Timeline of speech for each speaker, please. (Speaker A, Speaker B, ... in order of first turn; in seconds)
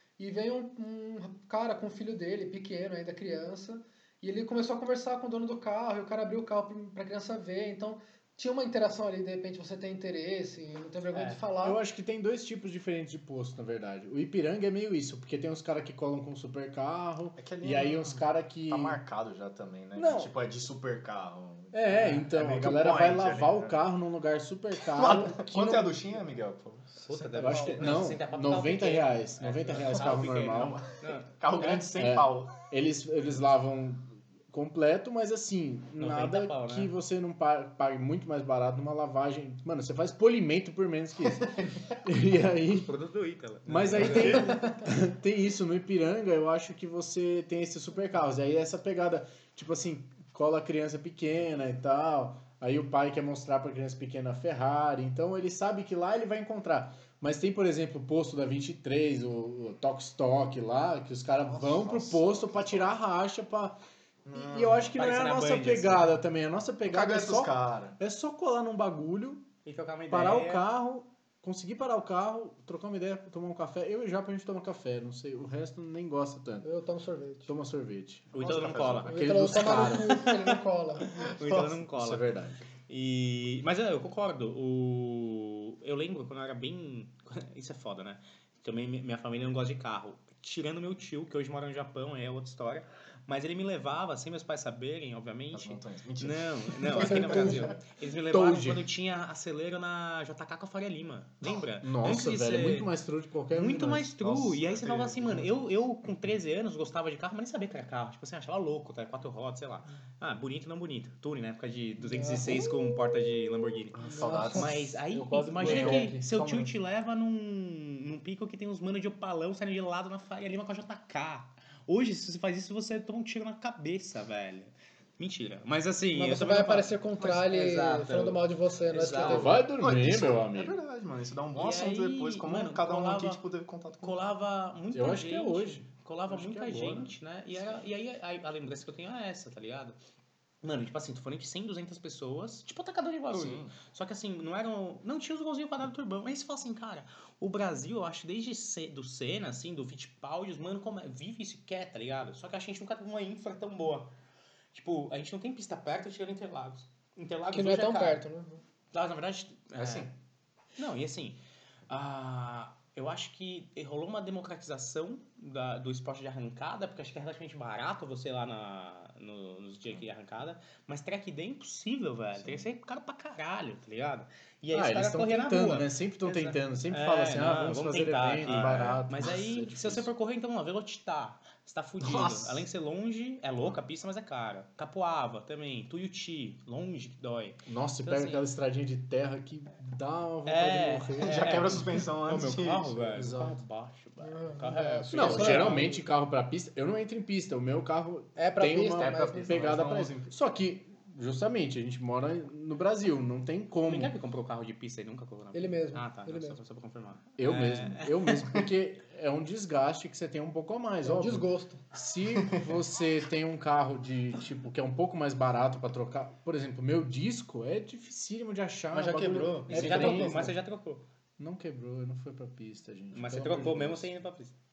Speaker A: 0.2-11.8, 27.1-27.9, 76.6-77.5, 79.1-81.1, 96.9-97.7, 112.1-112.7, 114.0-114.7, 126.1-129.7, 157.5-158.6, 194.2-196.0, 198.4-199.7, 205.5-206.6, 211.0-211.8
Speaker B: 11.1-11.4, 27.0-31.9, 36.0-36.9, 42.7-44.6, 64.9-66.2, 69.7-70.7, 78.3-82.3, 82.9-102.9, 103.5-129.6, 131.6-133.4, 134.0-140.0, 140.6-154.1, 154.7-158.2, 158.9-160.1, 160.8-188.5, 190.5-196.0, 203.8-208.4, 219.7-221.1, 223.1-224.6
Speaker C: 11.6-19.0, 20.0-20.3, 21.7-26.0, 27.4-30.8, 31.9-41.5, 42.0-42.9, 43.7-63.8, 64.3-69.5, 70.1-76.7, 77.5-78.3, 79.1-80.2, 82.0-82.6, 98.3-98.9, 101.8-104.2, 115.1-116.5, 129.2-130.8, 134.9-137.2, 174.7-180.1, 187.7-191.7, 193.1-193.6, 195.1-204.1, 207.4-220.6, 221.4-224.1
Speaker D: 17.4-23.8, 24.9-27.0, 27.5-28.0, 30.1-32.5, 43.9-44.7, 61.5-62.9, 64.2-64.9, 66.9-68.0, 78.4-79.3, 81.2-81.8, 95.5-97.8, 104.2-105.5, 114.0-116.7, 129.8-134.2, 143.3-143.7, 159.8-160.1, 178.4-179.0, 182.0-182.7, 191.2-193.1, 199.0-200.3, 212.3-212.6, 218.9-220.5